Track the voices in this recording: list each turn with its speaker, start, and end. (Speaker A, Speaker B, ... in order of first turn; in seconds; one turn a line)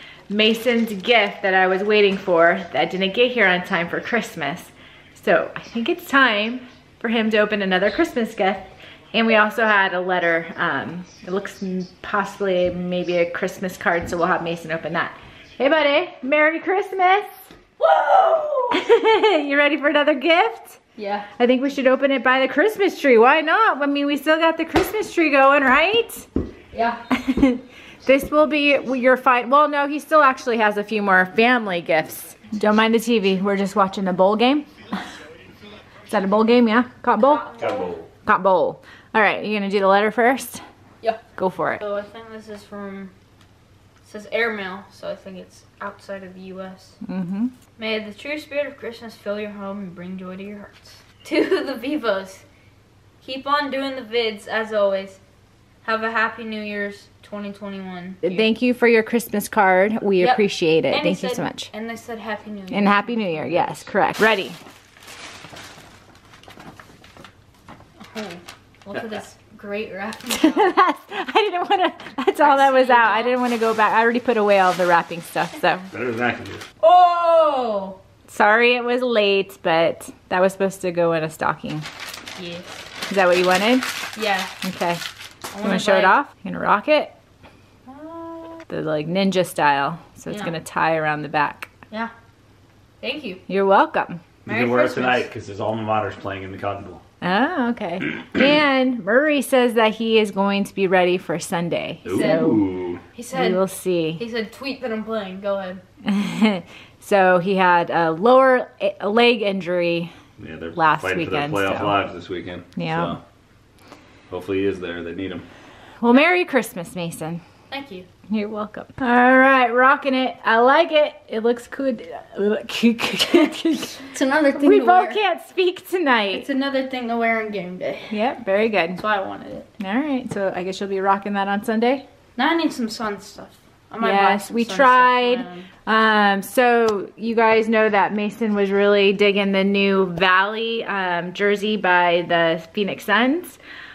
Speaker A: 0.3-17.4
Speaker B: 17.8-18.8
Speaker A: 18.7-20.8
Speaker B: 21.0-21.3
Speaker A: 21.4-26.3
Speaker B: 26.7-27.0
Speaker A: 27.1-35.0
Speaker A: 36.1-37.5
Speaker B: 37.4-37.9
Speaker C: 37.6-38.1
Speaker A: 38.3-40.6
Speaker A: 41.4-41.8
Speaker B: 41.8-43.1
Speaker B: 44.0-47.0
Speaker A: 47.0-47.5
Speaker B: 47.8-52.4
Speaker B: 53.2-55.2
Speaker B: 55.8-58.4
Speaker A: 58.2-61.7
Speaker B: 60.2-63.2
Speaker A: 62.7-64.6
Speaker B: 68.0-70.7
Speaker A: 70.3-75.9
Speaker B: 72.4-73.4
Speaker C: 75.9-76.6
Speaker B: 76.8-78.0
Speaker A: 78.3-81.9
Speaker B: 82.4-82.8
Speaker A: 83.1-83.9
Speaker B: 84.2-84.5
Speaker A: 84.6-85.0
Speaker B: 85.5-86.2
Speaker A: 85.6-87.2
Speaker B: 87.9-88.7
Speaker A: 88.7-91.7
Speaker B: 93.0-93.4
Speaker A: 93.5-94.2
Speaker B: 94.5-95.3
Speaker C: 94.5-97.0
Speaker A: 97.2-102.6
Speaker C: 102.0-103.0
Speaker B: 102.1-102.6
Speaker B: 103.1-103.6
Speaker A: 103.3-104.2
Speaker B: 104.2-105.8
Speaker A: 106.0-110.1
Speaker C: 110.4-113.2
Speaker A: 110.8-112.0
Speaker A: 112.8-113.2
Speaker C: 114.3-115.5
Speaker A: 116.0-117.4
Speaker B: 117.7-118.1
Speaker A: 118.3-126.5
Speaker B: 124.1-125.2
Speaker B: 126.3-128.2
Speaker A: 128.1-129.0
Speaker B: 129.0-129.7
Speaker A: 129.8-132.1
Speaker B: 132.4-135.7
Speaker A: 134.0-143.6